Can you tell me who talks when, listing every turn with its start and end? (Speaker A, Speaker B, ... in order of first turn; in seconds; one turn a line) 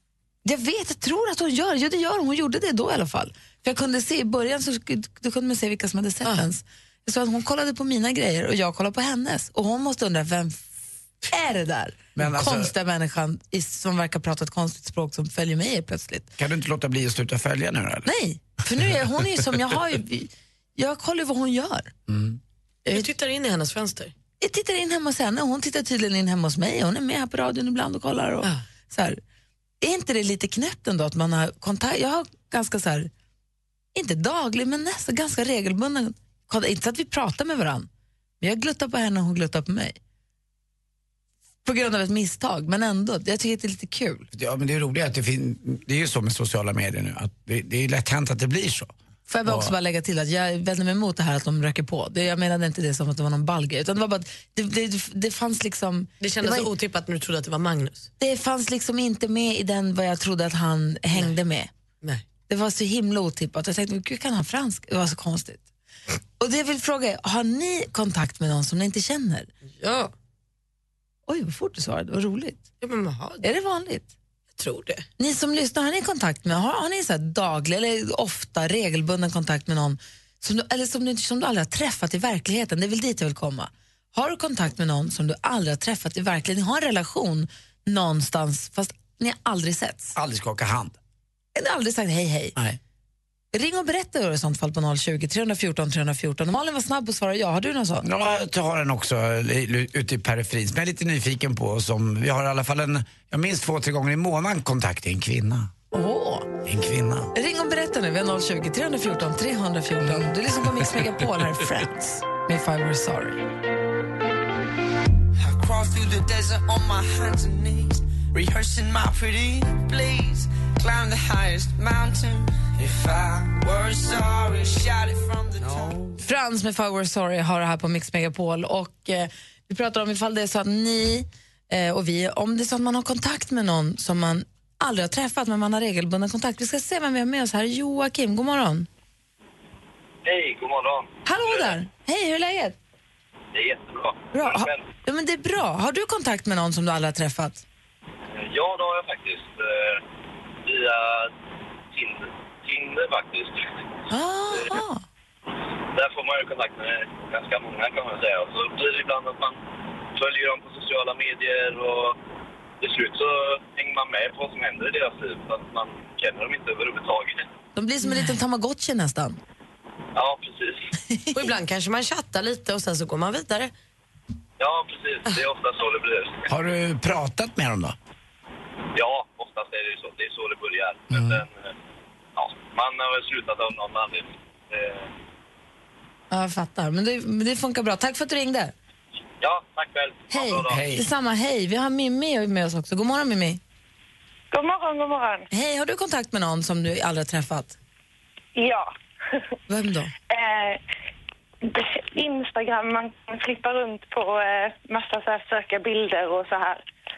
Speaker A: 0.4-10.7
Speaker A: 11.2-16.3
Speaker B: 12.2-12.7
Speaker B: 16.4-18.1
Speaker A: 18.1-21.9
Speaker B: 22.1-22.4
Speaker C: 22.9-24.1
Speaker A: 24.4-29.2
Speaker A: 29.8-33.1
Speaker A: 33.9-37.9
Speaker A: 38.4-40.0
Speaker A: 41.6-44.3
Speaker B: 44.3-48.9
Speaker A: 49.3-56.7
Speaker B: 49.4-49.7
Speaker C: 56.2-58.1
Speaker A: 58.2-61.7
Speaker A: 62.5-65.6
Speaker A: 66.4-69.5
Speaker C: 69.8-70.1
Speaker A: 71.3-72.6
Speaker C: 72.8-73.4
Speaker A: 73.4-74.1
Speaker C: 74.6-75.0
Speaker A: 75.2-90.1
Speaker B: 90.1-91.0
Speaker A: 91.5-92.5
Speaker A: 93.5-98.1
Speaker B: 98.0-105.7
Speaker A: 105.9-106.5
Speaker B: 106.6-107.3
Speaker A: 107.3-113.4
Speaker D: 115.4-126.0
Speaker A: 126.2-138.9
Speaker E: 140.2-141.8
Speaker A: 141.2-142.8
Speaker E: 143.5-144.8
Speaker A: 144.3-147.6
Speaker E: 148.3-150.0
Speaker E: 150.6-151.3
Speaker E: 151.9-153.7
Speaker A: 154.1-155.0
Speaker E: 155.9-159.6
Speaker E: 160.1-162.2
Speaker E: 162.8-167.4
Speaker A: 167.7-169.4
Speaker E: 170.1-170.9
Speaker A: 171.1-171.4
Speaker C: 171.3-173.7
Speaker E: 174.6-176.5
Speaker B: 176.5-177.9
Speaker E: 178.9-181.7
Speaker B: 181.1-181.4
Speaker E: 182.3-185.1
Speaker A: 186.3-188.7
Speaker E: 189.4-190.9
Speaker A: 190.3-193.6
Speaker B: 190.6-191.1
Speaker F: 194.5-195.5
Speaker A: 195.5-197.8
Speaker F: 198.6-198.9
Speaker A: 199.7-200.1
Speaker F: 200.3-200.8
Speaker F: 201.6-206.8